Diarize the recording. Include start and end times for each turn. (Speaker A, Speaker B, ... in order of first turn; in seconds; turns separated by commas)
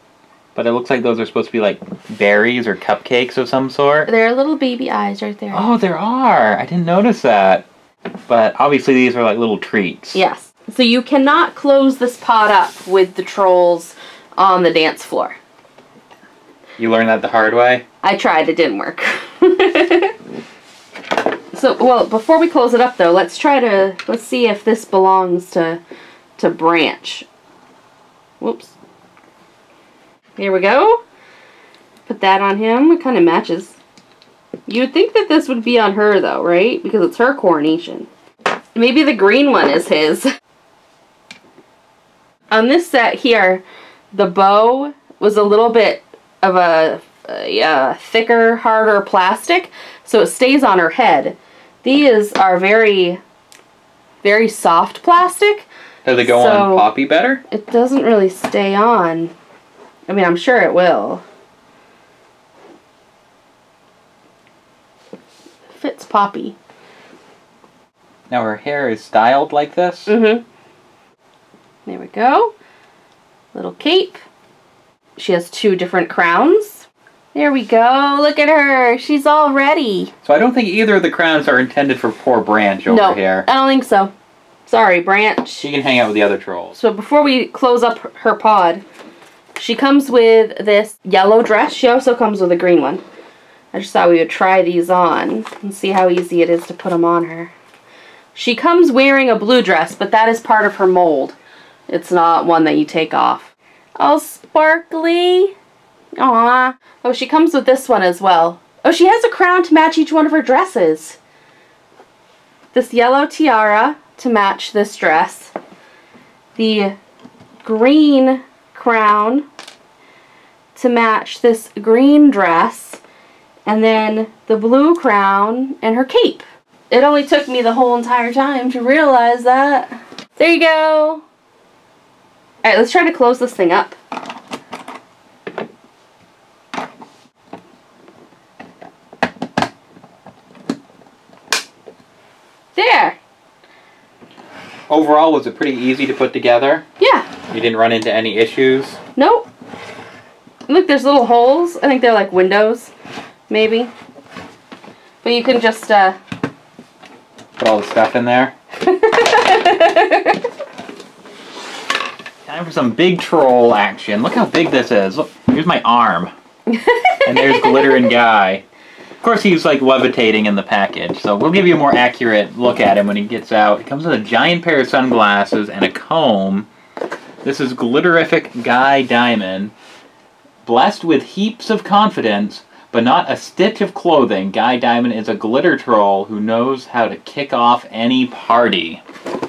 Speaker A: 0.6-4.1, Speaker B: 4.1-5.7, Speaker A: 5.5-7.7, Speaker A: 8.3-10.2, Speaker B: 10.2-15.4, Speaker A: 16.8-17.8, Speaker B: 18.0-20.1, Speaker B: 21.5-25.8, Speaker B: 26.4-27.3, Speaker B: 28.4-28.8, Speaker B: 30.4-31.0, Speaker B: 32.1-33.8, Speaker B: 34.7-38.1, Speaker B: 38.8-40.3, Speaker B: 42.5-53.2, Speaker B: 54.2-56.9, Speaker A: 56.0-57.4, Speaker B: 57.5-59.3, Speaker B: 60.1-61.2, Speaker B: 65.7-66.6, Speaker A: 68.3-70.1, Speaker B: 70.1-70.4, Speaker B: 71.9-72.5, Speaker B: 73.5-74.2, Speaker B: 75.2-80.1, Speaker A: 80.2-83.5, Speaker B: 82.9-84.1, Speaker B: 84.7-85.7, Speaker A: 85.6-86.8, Speaker B: 86.8-88.8, Speaker B: 89.6-93.0, Speaker B: 93.7-97.5, Speaker B: 98.3-101.4, Speaker B: 101.9-105.5, Speaker B: 106.2-111.2, Speaker B: 112.7-115.5, Speaker B: 116.6-117.0, Speaker B: 117.6-119.5, Speaker B: 120.8-123.0, Speaker B: 123.7-131.2, Speaker B: 132.6-134.0, Speaker B: 142.8-143.2, Speaker A: 144.9-146.9, Speaker B: 147.0-147.3, Speaker A: 147.5-149.0, Speaker B: 149.2-149.5, Speaker B: 150.7-152.9, Speaker B: 153.5-153.9, Speaker B: 155.2-156.2, Speaker A: 157.6-158.5, Speaker B: 158.8-160.4, Speaker A: 162.5-166.3, Speaker B: 166.7-168.1, Speaker A: 167.2-168.6, Speaker A: 169.2-176.7, Speaker A: 177.4-179.7, Speaker A: 180.7-189.0